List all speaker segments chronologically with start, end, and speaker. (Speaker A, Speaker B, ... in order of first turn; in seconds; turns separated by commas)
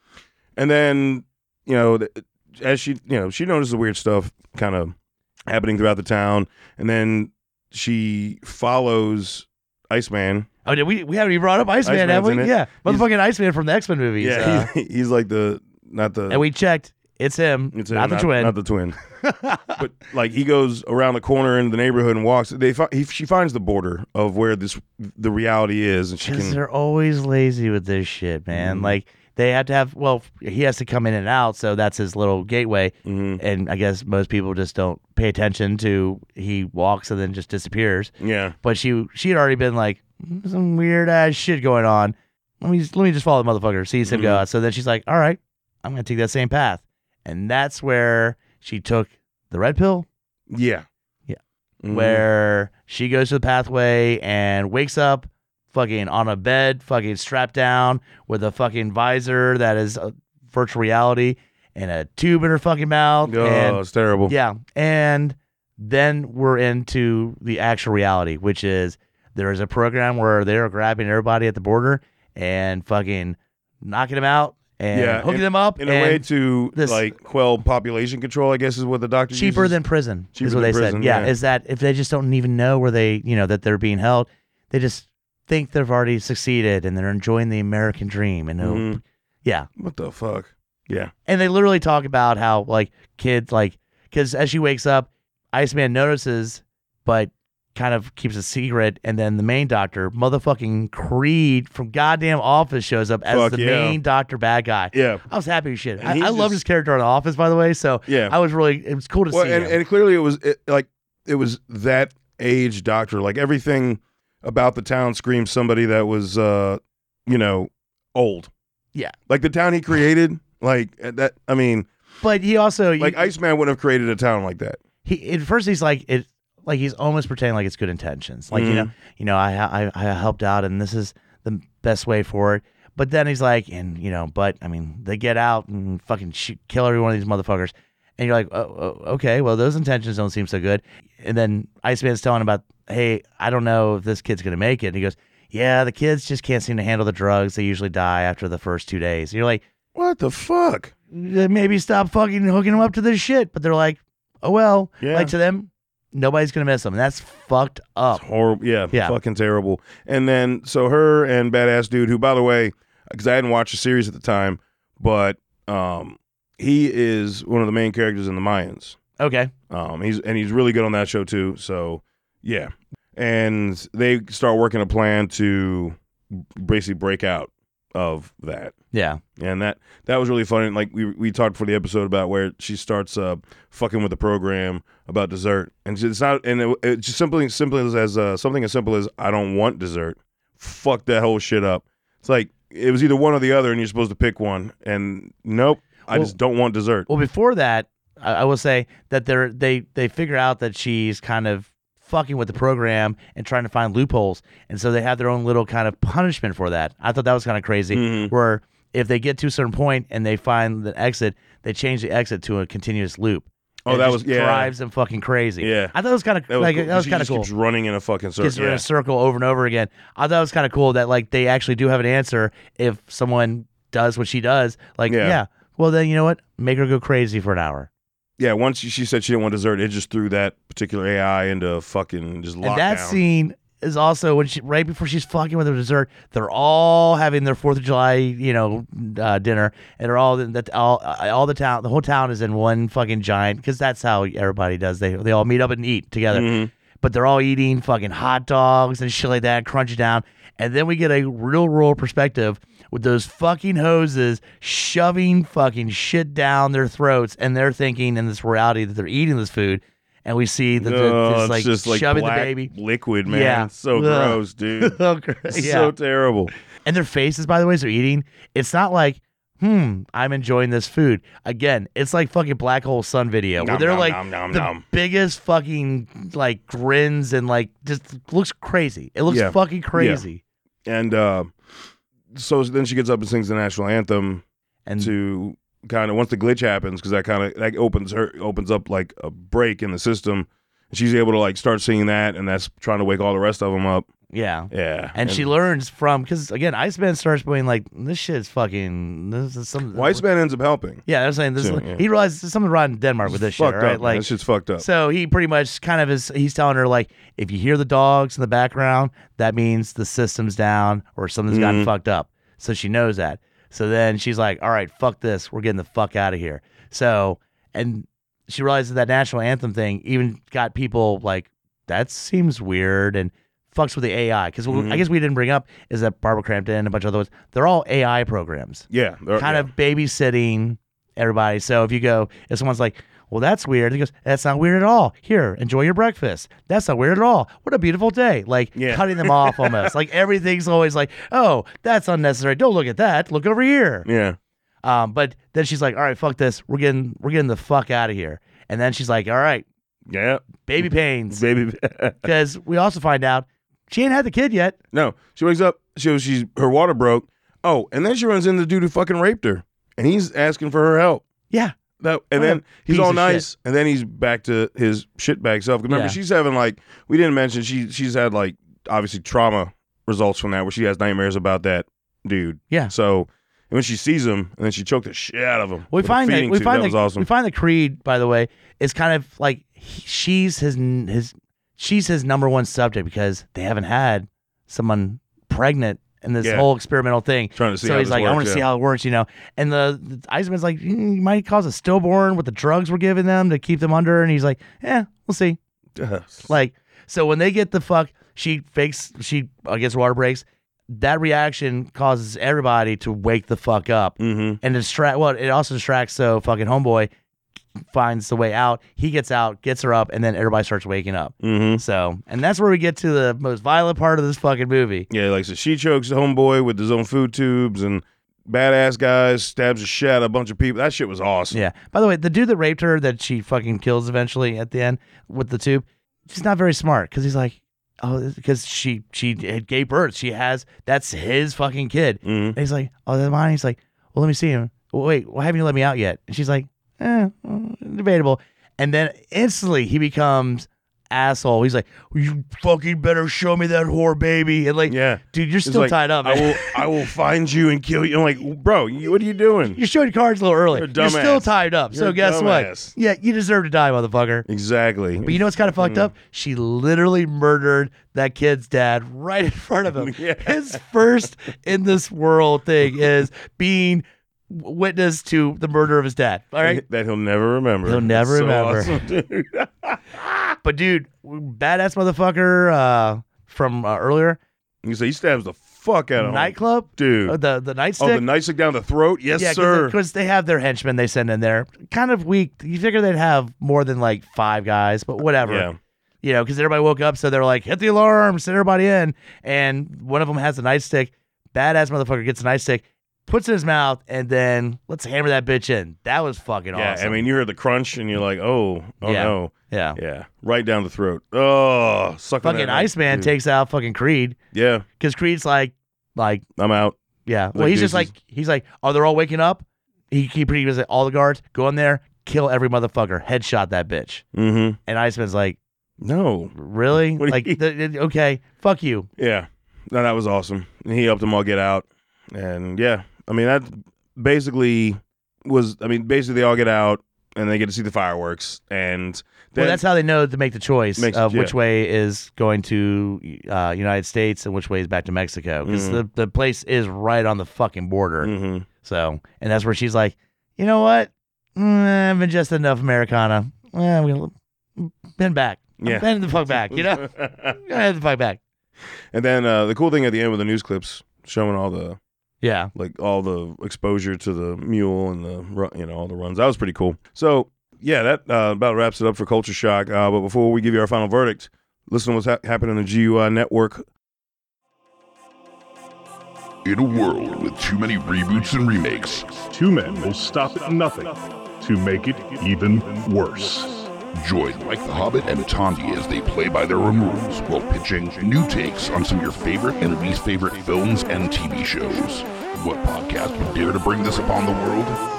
Speaker A: 0.6-4.9, Speaker A: 5.5-10.5, Speaker B: 10.6-14.7, Speaker A: 11.8-13.1, Speaker A: 14.2-16.4, Speaker B: 16.3-18.6, Speaker A: 17.7-19.0, Speaker B: 19.2-19.8, Speaker A: 19.7-26.6, Speaker B: 26.2-50.1, Speaker A: 28.5-28.9, Speaker A: 33.0-33.4, Speaker A: 38.2-38.5, Speaker A: 44.0-44.4, Speaker A: 50.5-50.9, Speaker B: 51.3-77.1, Speaker A: 51.8-52.2, Speaker A: 63.2-64.3, Speaker A: 74.9-79.8, Speaker B: 79.3-89.7, Speaker A: 80.3-81.3, Speaker A: 88.6-89.0, Speaker A: 89.8-91.1, Speaker B: 91.3-109.8, Speaker A: 103.3-104.0, Speaker A: 104.9-105.2, Speaker A: 106.0-106.6, Speaker A: 108.1-108.3, Speaker A: 109.3-118.5, Speaker A: 119.3-121.9, Speaker B: 122.2-123.3, Speaker A: 123.0-124.8, Speaker B: 125.0-149.6, Speaker A: 128.5-128.9, Speaker A: 149.9-150.9, Speaker B: 151.1-158.2, Speaker A: 155.0-155.3, Speaker A: 158.1-169.0, Speaker B: 158.9-159.2, Speaker B: 169.2-169.5, Speaker A: 169.7-178.7, Speaker B: 178.9-179.2, Speaker A: 179.4-197.1, Speaker B: 196.1-196.3, Speaker B: 197.1-217.5, Speaker A: 207.9-208.3, Speaker A: 213.8-214.7, Speaker A: 215.6-215.9, Speaker A: 216.5-218.8, Speaker B: 218.4-227.9, Speaker A: 225.1-225.4, Speaker A: 228.4-233.2, Speaker B: 232.6-262.7, Speaker A: 246.3-246.7, Speaker A: 260.8-266.5, Speaker B: 263.2-265.9, Speaker B: 266.8-280.4, Speaker A: 273.6-274.8, Speaker A: 279.3-280.2, Speaker A: 280.9-284.4, Speaker B: 284.9-285.1, Speaker A: 285.0-294.1, Speaker B: 294.3-300.2, Speaker A: 294.7-295.5, Speaker A: 299.9-301.0, Speaker B: 301.1-304.3, Speaker A: 301.6-302.0, Speaker A: 303.3-304.9, Speaker B: 304.8-328.9, Speaker A: 311.5-311.9, Speaker A: 324.7-325.0, Speaker A: 328.9-329.7, Speaker B: 329.4-344.1, Speaker A: 338.7-339.9, Speaker A: 344.0-344.4, Speaker B: 344.8-349.6, Speaker A: 350.1-352.3, Speaker B: 350.6-351.4, Speaker B: 352.2-354.8, Speaker A: 354.9-361.2, Speaker A: 362.0-377.3, Speaker B: 362.4-363.5, Speaker B: 365.9-366.2, Speaker B: 375.9-395.6, Speaker A: 386.4-386.7, Speaker A: 387.5-388.6, Speaker A: 395.9-396.5, Speaker B: 396.5-407.1, Speaker A: 404.2-404.6, Speaker B: 407.9-415.1, Speaker A: 411.4-411.8, Speaker A: 415.1-421.6, Speaker B: 421.5-446.8, Speaker A: 432.2-432.6, Speaker A: 444.9-449.8, Speaker B: 449.7-454.4, Speaker A: 450.7-452.9, Speaker A: 454.5-456.1, Speaker B: 455.2-466.8, Speaker A: 459.9-461.3, Speaker A: 466.6-470.6, Speaker B: 467.8-469.0, Speaker B: 470.6-474.4, Speaker A: 474.8-477.4, Speaker B: 476.2-478.2, Speaker A: 478.0-480.0, Speaker B: 479.4-485.7, Speaker A: 485.4-485.8, Speaker B: 486.2-497.2, Speaker A: 496.7-503.3, Speaker B: 499.0-500.0, Speaker B: 502.4-504.4, Speaker A: 504.5-504.9, Speaker B: 505.0-506.4, Speaker A: 506.6-506.9, Speaker B: 507.2-514.2, Speaker A: 507.5-508.1, Speaker A: 514.3-514.8, Speaker B: 514.9-515.6, Speaker A: 516.0-516.5, Speaker B: 516.5-519.1, Speaker A: 517.1-517.6, Speaker A: 519.2-529.8, Speaker B: 529.6-548.4, Speaker A: 531.0-531.5, Speaker A: 535.6-536.0, Speaker A: 538.2-538.7, Speaker A: 545.8-547.6, Speaker A: 549.1-552.0, Speaker B: 552.4-552.7, Speaker A: 552.7-563.9, Speaker C: 566.6-569.5, Speaker D: 569.5-573.9, Speaker C: 574.1-585.0